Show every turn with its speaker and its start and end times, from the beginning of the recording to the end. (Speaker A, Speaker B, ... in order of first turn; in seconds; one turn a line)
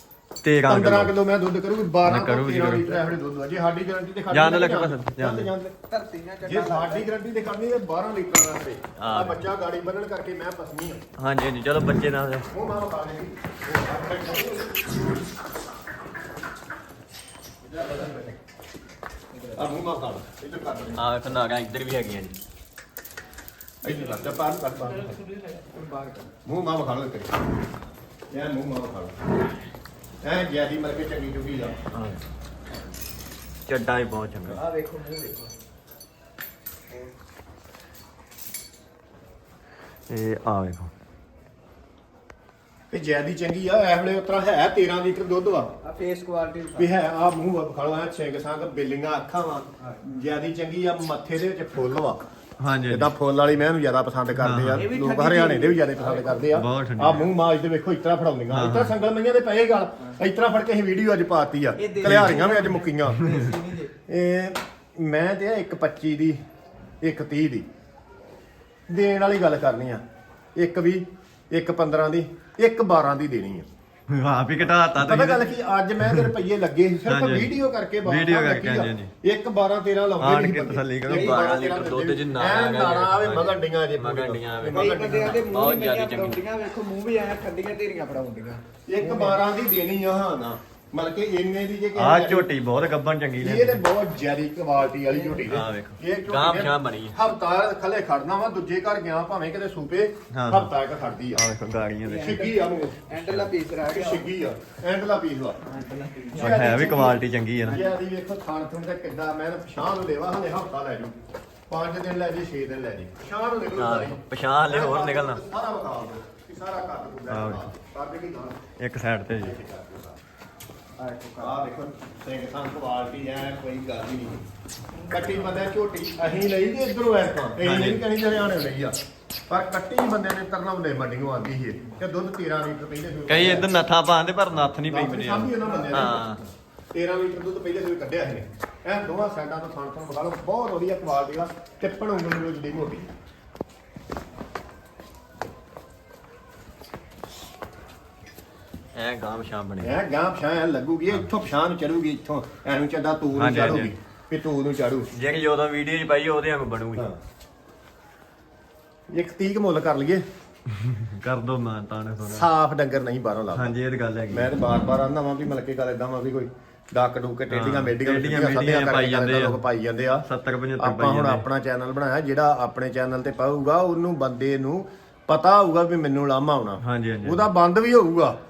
Speaker A: 0.4-1.1
Speaker B: 0.7-5.7
Speaker A: 2.0-3.0
Speaker A: 4.3-5.5
Speaker C: 5.9-7.1
Speaker B: 6.4-11.0
Speaker A: 9.0-9.4
Speaker A: 11.2-12.5
Speaker B: 12.5-14.8
Speaker C: 17.8-18.3
Speaker B: 19.5-21.0
Speaker A: 20.9-22.3
Speaker B: 23.8-25.1
Speaker C: 25.5-26.3
Speaker B: 26.4-27.3
Speaker B: 28.3-29.2
Speaker B: 30.2-31.7
Speaker A: 31.9-32.2
Speaker A: 33.6-34.6
Speaker C: 34.5-35.5
Speaker A: 40.1-40.9
Speaker B: 42.9-45.7
Speaker C: 45.8-46.9
Speaker B: 46.8-52.2
Speaker A: 52.6-53.1
Speaker B: 52.9-63.3
Speaker A: 54.4-54.8
Speaker C: 54.7-56.5
Speaker A: 56.5-57.3
Speaker A: 58.5-58.9
Speaker C: 61.8-63.9
Speaker A: 62.0-62.5
Speaker B: 64.1-66.4
Speaker B: 67.0-67.7
Speaker B: 68.9-70.0
Speaker B: 70.5-73.7
Speaker A: 74.1-76.3
Speaker B: 75.0-85.4
Speaker A: 77.0-77.5
Speaker A: 78.0-79.1
Speaker A: 80.2-86.4
Speaker C: 81.1-81.4
Speaker C: 84.6-89.4
Speaker B: 88.9-92.5
Speaker A: 92.0-93.8
Speaker B: 93.4-101.4
Speaker C: 95.1-95.5
Speaker A: 95.5-97.2
Speaker A: 100.3-100.7
Speaker A: 101.3-102.3
Speaker C: 102.0-104.3
Speaker B: 102.1-102.9
Speaker A: 103.2-103.5
Speaker B: 103.9-105.6
Speaker C: 105.6-106.9
Speaker B: 106.3-111.1
Speaker A: 106.3-107.8
Speaker B: 111.7-118.6
Speaker A: 113.8-115.4
Speaker A: 117.3-117.7
Speaker A: 118.8-119.5
Speaker B: 119.3-120.2
Speaker C: 121.0-121.6
Speaker B: 121.4-124.4
Speaker B: 125.1-128.9
Speaker C: 125.1-125.5
Speaker A: 127.6-128.0
Speaker B: 129.5-133.7
Speaker A: 133.3-136.4
Speaker B: 134.9-143.1
Speaker A: 148.9-149.9
Speaker B: 149.8-155.1
Speaker A: 153.3-153.9
Speaker A: 155.1-157.1
Speaker B: 159.1-160.2
Speaker A: 160.8-162.4
Speaker B: 162.2-163.8
Speaker A: 163.5-164.5
Speaker B: 164.3-170.2
Speaker A: 167.5-169.6
Speaker A: 170.2-171.4
Speaker B: 170.8-178.4
Speaker A: 176.8-177.5